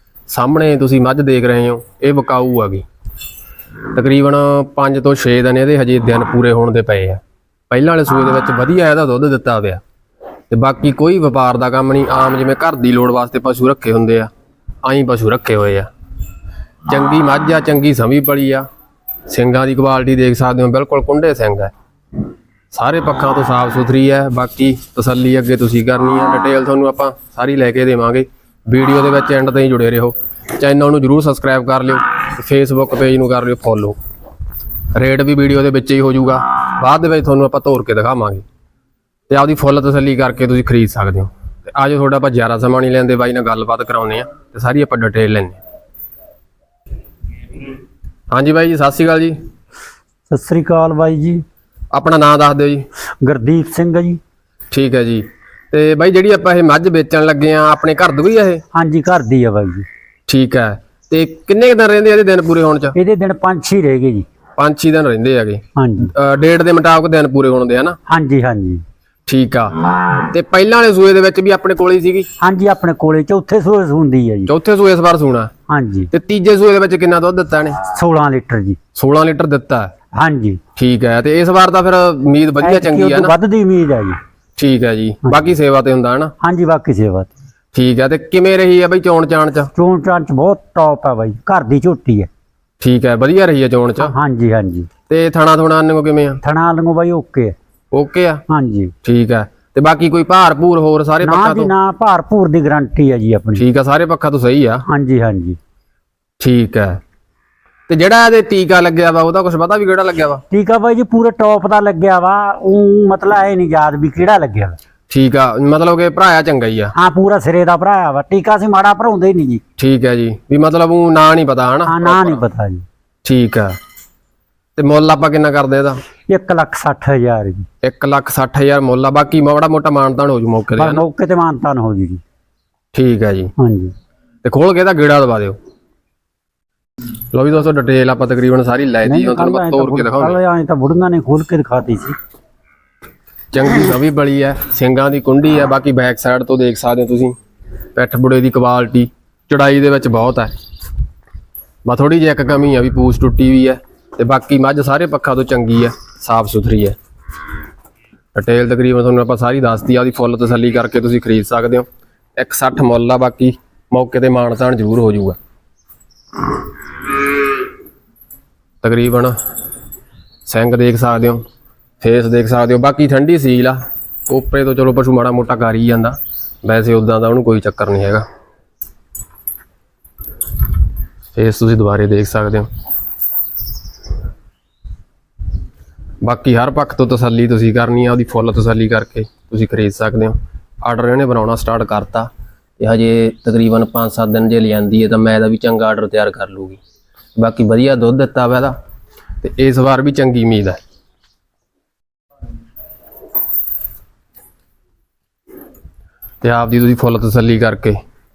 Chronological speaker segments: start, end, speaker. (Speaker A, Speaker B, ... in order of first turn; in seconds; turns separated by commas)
Speaker A: 0.3-2.8, Speaker A: 3.9-9.8, Speaker A: 10.5-14.3, Speaker A: 14.8-15.9, Speaker A: 16.9-18.6, Speaker A: 19.3-21.7, Speaker A: 22.7-34.0, Speaker A: 34.9-38.4, Speaker A: 39.3-45.6, Speaker A: 48.3-49.4, Speaker B: 50.3-51.4, Speaker A: 51.9-52.8, Speaker B: 53.2-54.2, Speaker A: 54.7-58.6, Speaker B: 58.7-59.9, Speaker A: 60.3-62.9, Speaker B: 62.9-64.2, Speaker A: 64.6-68.0, Speaker B: 65.8-66.1, Speaker B: 68.1-68.8, Speaker A: 69.3-72.3, Speaker B: 72.4-74.5, Speaker A: 74.5-75.5, Speaker B: 75.7-76.1, Speaker A: 76.1-77.8, Speaker B: 77.9-78.8, Speaker A: 78.9-79.9, Speaker B: 80.2-80.6, Speaker A: 80.8-83.3, Speaker B: 82.6-84.2, Speaker A: 84.6-86.3, Speaker B: 86.4-87.3, Speaker A: 87.7-89.7, Speaker B: 89.8-92.3, Speaker A: 92.8-94.1, Speaker B: 94.0-94.9, Speaker A: 95.1-96.4, Speaker B: 96.4-97.5, Speaker A: 97.9-98.4, Speaker B: 98.5-98.9, Speaker A: 99.0-101.7, Speaker B: 101.2-103.6, Speaker A: 103.5-104.8, Speaker B: 104.9-105.6, Speaker A: 106.4-107.0, Speaker A: 107.9-110.4, Speaker B: 110.5-114.8, Speaker A: 115.1-116.9, Speaker B: 117.0-119.6, Speaker A: 119.8-122.4, Speaker B: 121.9-122.8, Speaker A: 123.2-123.8, Speaker A: 124.8-126.0, Speaker B: 126.3-127.7, Speaker A: 127.8-131.0, Speaker B: 130.8-132.2, Speaker A: 132.9-133.5, Speaker B: 133.6-133.9, Speaker A: 134.4-135.6, Speaker A: 137.3-140.4, Speaker B: 139.0-142.2, Speaker A: 143.5-147.3, Speaker A: 147.9-150.5, Speaker A: 151.8-157.0, Speaker A: 158.3-161.8, Speaker A: 162.4-165.4, Speaker A: 168.8-169.3, Speaker A: 170.4-171.4, Speaker A: 172.0-178.2, Speaker A: 181.3-182.7, Speaker A: 186.2-192.3, Speaker A: 192.8-196.8, Speaker A: 197.4-198.8, Speaker A: 199.4-200.8, Speaker A: 206.4-208.0